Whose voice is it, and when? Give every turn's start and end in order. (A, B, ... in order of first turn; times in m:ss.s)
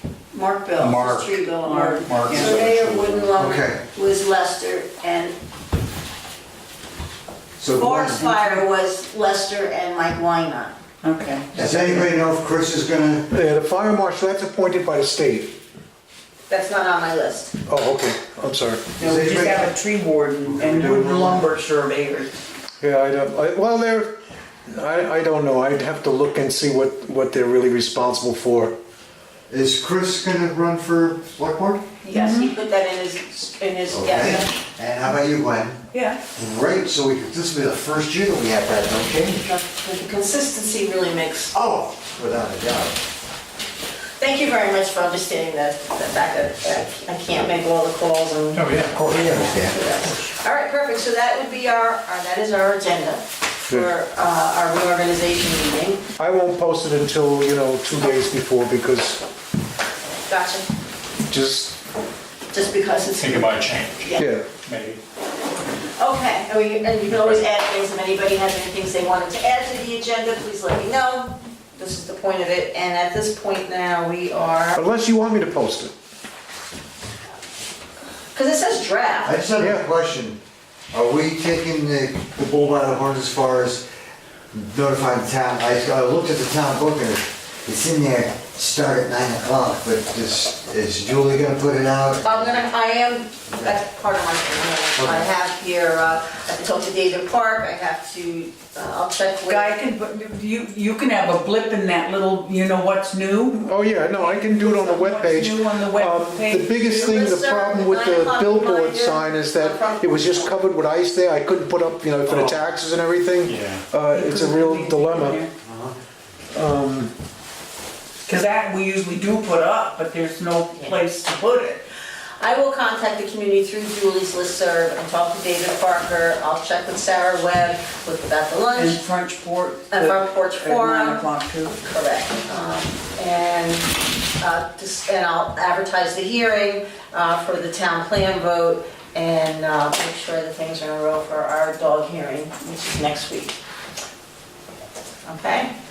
0:00.3-0:05.4 A
0:00.8-0:01.3 B
0:01.6-0:02.6 C
0:02.0-0:03.3 B
0:03.3-0:03.8 D
0:07.6-0:08.3 D
0:07.7-0:10.8 A
0:11.0-0:12.0 C
0:11.5-0:13.3 D
0:13.3-0:15.6 E
0:16.5-0:17.5 A
0:17.7-0:19.0 E
0:19.0-0:22.3 C
0:19.0-0:19.7 D
0:20.4-0:21.5 D
0:22.8-0:24.1 E
0:24.7-0:28.7 E
0:29.5-0:31.8 D
0:32.0-0:34.5 A
0:32.1-0:32.5 C
0:33.9-0:35.8 D
0:35.9-0:36.2 C
0:36.3-0:39.5 D
0:39.4-0:41.6 A
0:41.5-0:43.0 D
0:44.2-0:56.0 A
0:48.5-0:49.4 B
0:49.2-0:49.7 D
0:56.2-0:59.2 E
1:00.2-1:00.7 A
1:01.3-1:01.8 E
1:02.5-1:04.3 A
1:03.2-1:05.0 B
1:04.2-1:04.5 E
1:06.0-1:14.8 A
1:07.1-1:07.4 B
1:14.7-1:15.9 E
1:18.3-1:19.4 A
1:19.2-1:20.4 D
1:19.6-1:19.8 E
1:20.9-1:23.8 D
1:24.5-1:32.6 D
1:32.2-1:39.7 A
1:35.0-1:35.3 D
1:39.4-1:43.7 C
1:43.5-1:55.4 E
1:44.3-1:46.9 C
1:46.8-1:50.7 A
1:52.3-1:52.6 B
1:53.4-1:53.8 B
1:54.1-1:55.5 C
1:55.6-1:55.9 D
1:56.5-1:57.1 E
1:58.2-2:01.8 C
2:02.4-2:09.0 A
2:08.7-2:11.8 C
2:09.9-2:11.2 A
2:11.8-2:23.5 A
2:25.2-2:25.7 A